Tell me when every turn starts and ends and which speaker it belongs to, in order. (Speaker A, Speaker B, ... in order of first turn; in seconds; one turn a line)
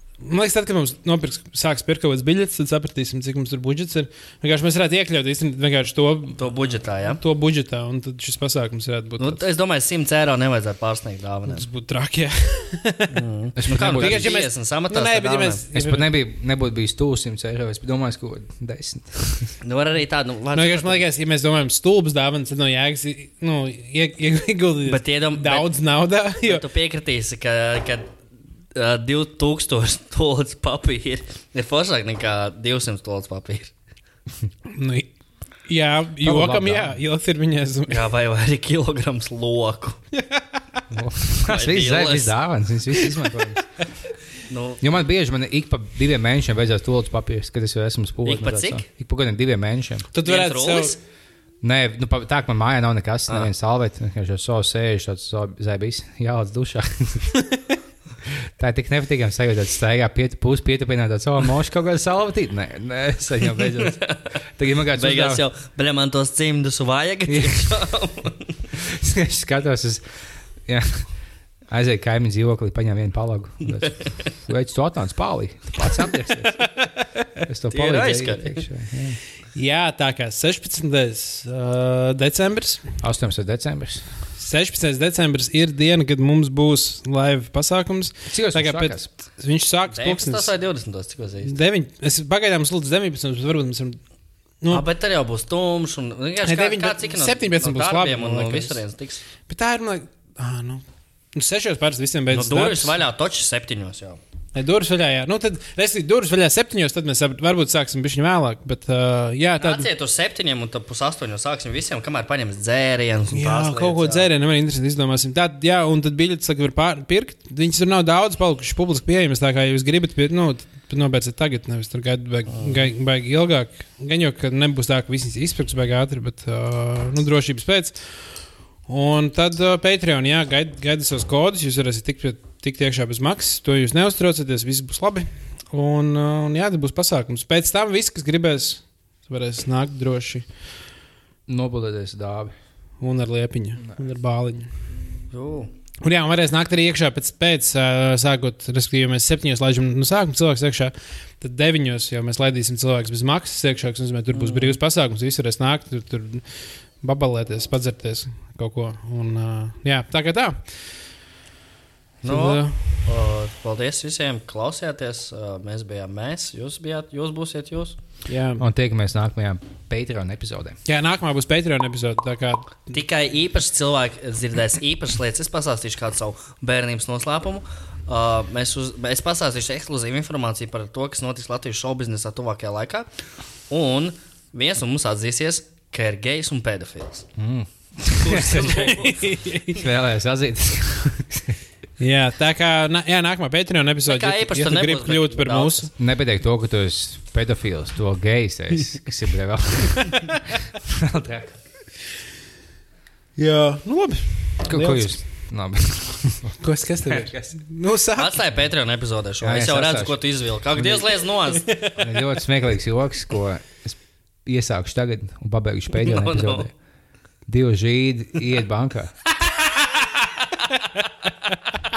Speaker A: 0.2-6.4
Speaker B: 6.3-7.2
Speaker A: 7.2-9.4
Speaker B: 9.2-11.7
Speaker A: 11.5-13.2
Speaker B: 13.1-15.6
Speaker C: 13.6-14.4
Speaker A: 13.8-16.1
Speaker C: 15.7-19.6
Speaker B: 19.6-21.0
Speaker A: 20.6-26.6
Speaker B: 24.9-25.7
Speaker B: 26.4-28.1
Speaker B: 28.8-33.7
Speaker A: 34.7-35.1
Speaker A: 35.7-38.1
Speaker C: 36.2-37.0
Speaker B: 37.9-40.0
Speaker A: 40.1-40.4
Speaker C: 40.9-43.6
Speaker B: 41.5-42.3
Speaker A: 43.0-43.4
Speaker B: 44.5-44.8
Speaker C: 44.8-50.1
Speaker B: 48.2-48.8
Speaker A: 50.1-51.0
Speaker B: 50.2-51.0
Speaker C: 51.6-57.3
Speaker C: 58.3-64.0
Speaker B: 63.8-64.3
Speaker C: 64.6-65.4
Speaker B: 64.9-68.6
Speaker C: 67.3-67.8
Speaker C: 68.8-70.0
Speaker C: 70.7-71.1
Speaker C: 71.7-76.7
Speaker B: 73.9-74.3
Speaker C: 77.5-79.2
Speaker B: 77.7-78.7
Speaker A: 79.5-82.8
Speaker C: 83.0-84.0
Speaker A: 84.4-90.5
Speaker C: 88.3-89.1
Speaker B: 89.9-91.5
Speaker A: 91.5-94.0
Speaker B: 94.7-99.2
Speaker A: 96.5-98.8
Speaker A: 99.5-100.8
Speaker A: 101.3-103.0
Speaker B: 102.3-104.2
Speaker A: 104.5-109.9
Speaker B: 109.6-114.3
Speaker A: 113.3-128.1
Speaker B: 122.5-122.9
Speaker A: 128.9-140.5
Speaker C: 141.5-142.5
Speaker A: 143.0-144.7
Speaker B: 145.3-145.7
Speaker A: 146.0-156.4
Speaker B: 154.3-154.8
Speaker A: 157.0-160.8
Speaker B: 162.2-168.0
Speaker A: 162.2-162.9
Speaker A: 168.3-168.7
Speaker C: 168.6-170.8
Speaker A: 170.9-172.9
Speaker B: 172.9-183.1
Speaker B: 183.7-187.3
Speaker C: 187.4-188.9
Speaker B: 188.1-189.4
Speaker A: 188.7-189.8
Speaker C: 189.7-191.6
Speaker A: 192.0-195.9
Speaker B: 194.1-195.9
Speaker C: 196.0-201.6
Speaker A: 203.4-205.2
Speaker C: 204.7-207.6
Speaker A: 206.6-208.4
Speaker B: 208.2-211.7
Speaker C: 209.4-210.2
Speaker C: 210.8-211.2
Speaker A: 211.7-212.1
Speaker C: 212.0-216.7
Speaker B: 216.0-216.7
Speaker C: 217.5-219.1